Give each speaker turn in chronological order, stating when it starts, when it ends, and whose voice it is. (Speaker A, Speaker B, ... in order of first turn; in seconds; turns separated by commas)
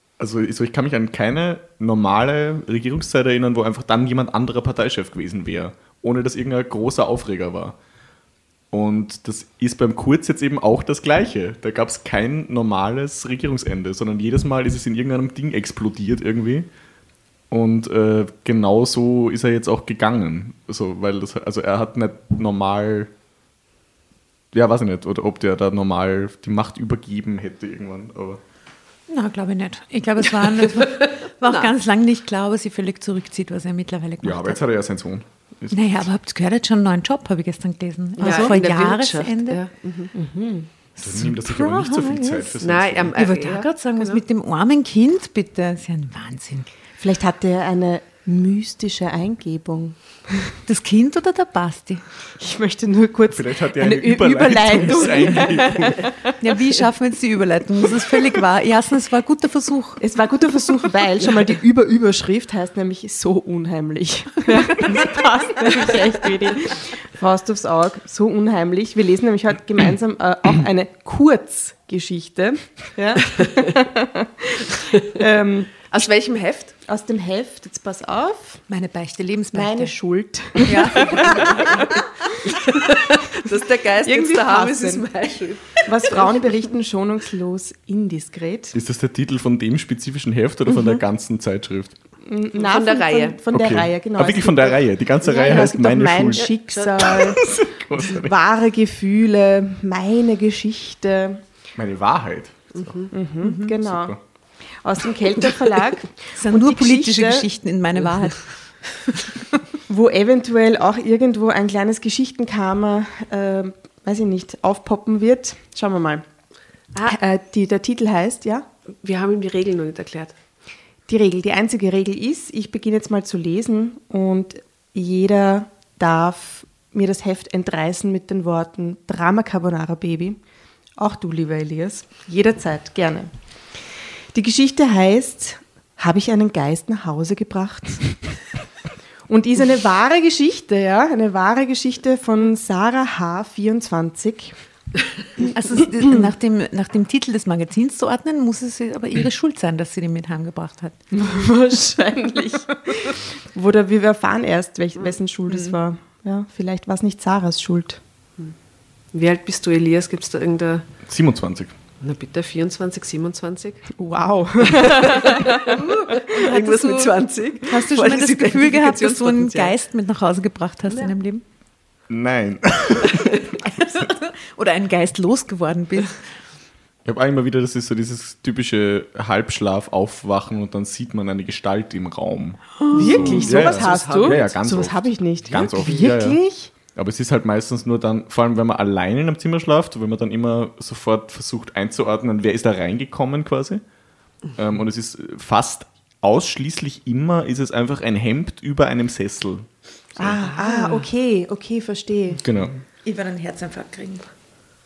Speaker A: 0.2-7.8, Speaker A: 8.7-16.7, Speaker A: 17.5-23.1, Speaker A: 24.5-28.4, Speaker B: 29.1-34.6, Speaker C: 30.5-31.7, Speaker A: 34.2-36.0, Speaker B: 35.7-39.6, Speaker D: 38.2-38.5, Speaker C: 38.2-40.1, Speaker D: 40.1-40.7, Speaker B: 41.0-42.6, Speaker A: 41.0-43.2, Speaker C: 42.6-44.2, Speaker B: 43.1-46.7, Speaker D: 47.0-50.6, Speaker B: 50.6-52.0, Speaker D: 52.3-56.3, Speaker A: 53.3-56.1, Speaker B: 56.4-60.0, Speaker D: 60.0-75.8, Speaker B: 64.7-65.1, Speaker C: 75.9-76.7, Speaker D: 76.9-78.7, Speaker B: 78.7-79.9, Speaker D: 79.5-81.9, Speaker B: 80.6-81.9, Speaker C: 81.0-81.8, Speaker C: 82.5-86.5, Speaker D: 84.0-85.0, Speaker D: 85.8-88.7, Speaker A: 88.7-91.9, Speaker D: 92.2-101.4, Speaker C: 92.5-93.4, Speaker A: 93.5-96.5, Speaker C: 96.4-97.3, Speaker A: 97.0-98.3, Speaker A: 101.8-103.1, Speaker C: 102.7-103.1, Speaker D: 103.1-104.2, Speaker B: 103.4-103.7, Speaker A: 103.8-104.2, Speaker D: 104.7-107.5, Speaker B: 106.3-109.4, Speaker D: 109.9-116.2, Speaker D: 117.0-118.7, Speaker C: 119.0-120.3, Speaker D: 121.1-130.4, Speaker D: 131.0-133.3, Speaker D: 134.3-138.5, Speaker D: 139.3-144.5, Speaker D: 145.4-146.3, Speaker B: 145.5-151.0, Speaker D: 151.1-158.0, Speaker B: 155.5-155.8, Speaker C: 159.1-160.8, Speaker A: 161.1-161.7, Speaker C: 162.0-163.9, Speaker D: 164.0-165.8, Speaker C: 164.8-169.7, Speaker B: 166.4-167.1, Speaker B: 167.7-171.4, Speaker A: 172.1-173.4, Speaker B: 173.7-176.2, Speaker A: 177.1-193.8, Speaker B: 182.8-183.4, Speaker C: 182.9-184.4, Speaker D: 182.9-186.7, Speaker A: 194.5-200.4, Speaker D: 200.2-202.4, Speaker B: 200.4-201.1, Speaker A: 202.4-202.7, Speaker B: 203.0-204.3